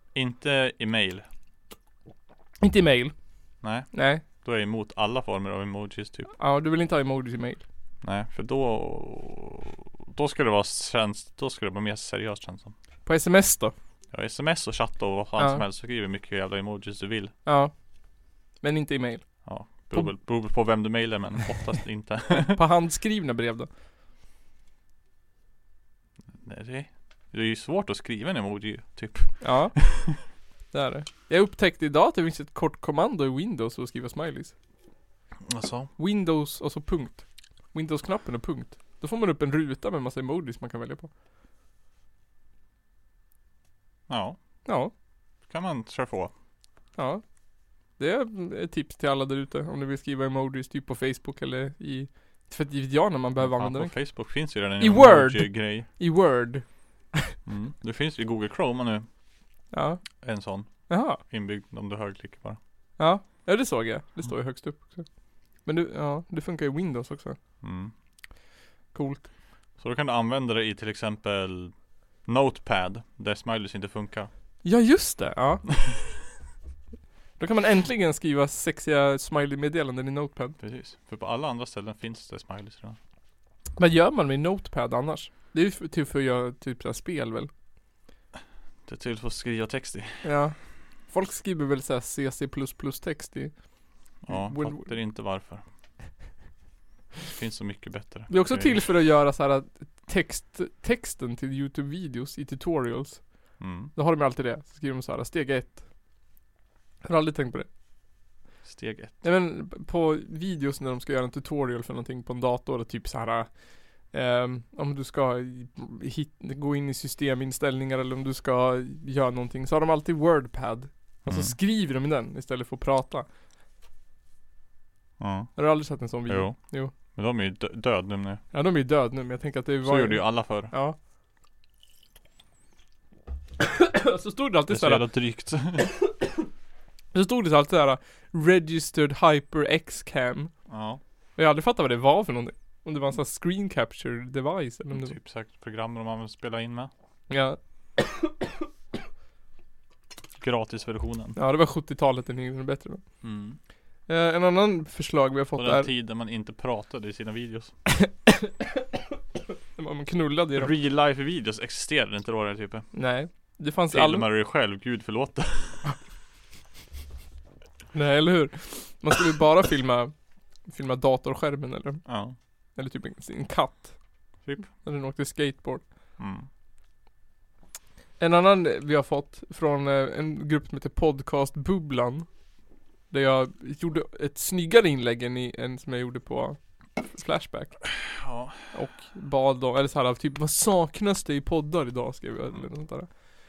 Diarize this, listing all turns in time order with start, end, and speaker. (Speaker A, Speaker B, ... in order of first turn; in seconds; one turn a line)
Speaker A: 0.1-1.2
Speaker B: 2.6-3.1
Speaker A: 3.6-6.3
Speaker B: 3.9-4.2
Speaker B: 6.4-7.6
Speaker A: 8.0-12.7
Speaker B: 13.1-13.7
Speaker A: 14.1-17.3
Speaker B: 15.4-15.6
Speaker B: 17.5-17.7
Speaker B: 18.6-20.1
Speaker A: 19.4-22.6
Speaker B: 22.4-23.7
Speaker A: 26.4-30.0
Speaker B: 29.4-29.8
Speaker B: 30.7-34.5
Speaker A: 35.5-35.9
Speaker B: 36.0-41.1
Speaker A: 44.1-44.4
Speaker B: 44.7-44.9
Speaker A: 45.5-46.3
Speaker B: 47.0-47.2
Speaker B: 48.0-54.0
Speaker A: 53.4-55.9
Speaker B: 54.8-57.4
Speaker A: 57.5-59.1
Speaker B: 59.7-60.0
Speaker A: 60.2-62.6
Speaker B: 60.9-61.2
Speaker B: 63.0-65.1
Speaker B: 65.6-67.4
Speaker A: 67.6-67.9
Speaker B: 68.9-69.2
Speaker A: 69.8-74.3
Speaker B: 74.6-75.7
Speaker B: 77.4-80.6
Speaker A: 80.6-83.0
Speaker B: 83.8-87.5
Speaker A: 88.9-90.2
Speaker B: 90.2-93.5
Speaker A: 94.2-95.6
Speaker B: 94.3-94.9
Speaker A: 97.3-98.8
Speaker B: 98.3-103.3
Speaker A: 103.6-103.9
Speaker B: 104.0-105.8
Speaker B: 107.0-107.7
Speaker A: 108.7-109.2
Speaker B: 109.2-113.5
Speaker B: 114.1-123.3
Speaker A: 121.3-121.5
Speaker A: 125.2-125.7
Speaker B: 125.6-126.9
Speaker A: 126.3-126.6
Speaker A: 127.1-128.4
Speaker B: 128.5-131.0
Speaker A: 129.8-130.7
Speaker B: 133.6-135.0
Speaker A: 134.7-135.9
Speaker B: 137.1-140.5
Speaker A: 140.7-141.0
Speaker B: 141.4-145.1
Speaker A: 144.9-146.9
Speaker B: 147.3-148.3
Speaker A: 150.4-151.4
Speaker B: 151.4-153.0
Speaker A: 153.2-153.6
Speaker B: 154.1-155.9
Speaker A: 155.6-157.8
Speaker B: 158.0-158.8
Speaker B: 159.8-160.7
Speaker A: 160.6-162.9
Speaker B: 162.9-164.3
Speaker A: 163.9-165.8
Speaker B: 167.9-170.1
Speaker B: 170.7-172.1
Speaker A: 172.1-172.4
Speaker B: 172.8-173.9
Speaker B: 174.8-175.8
Speaker A: 176.2-176.5
Speaker B: 178.2-182.3
Speaker B: 183.1-187.8
Speaker A: 188.2-188.6
Speaker B: 188.7-193.1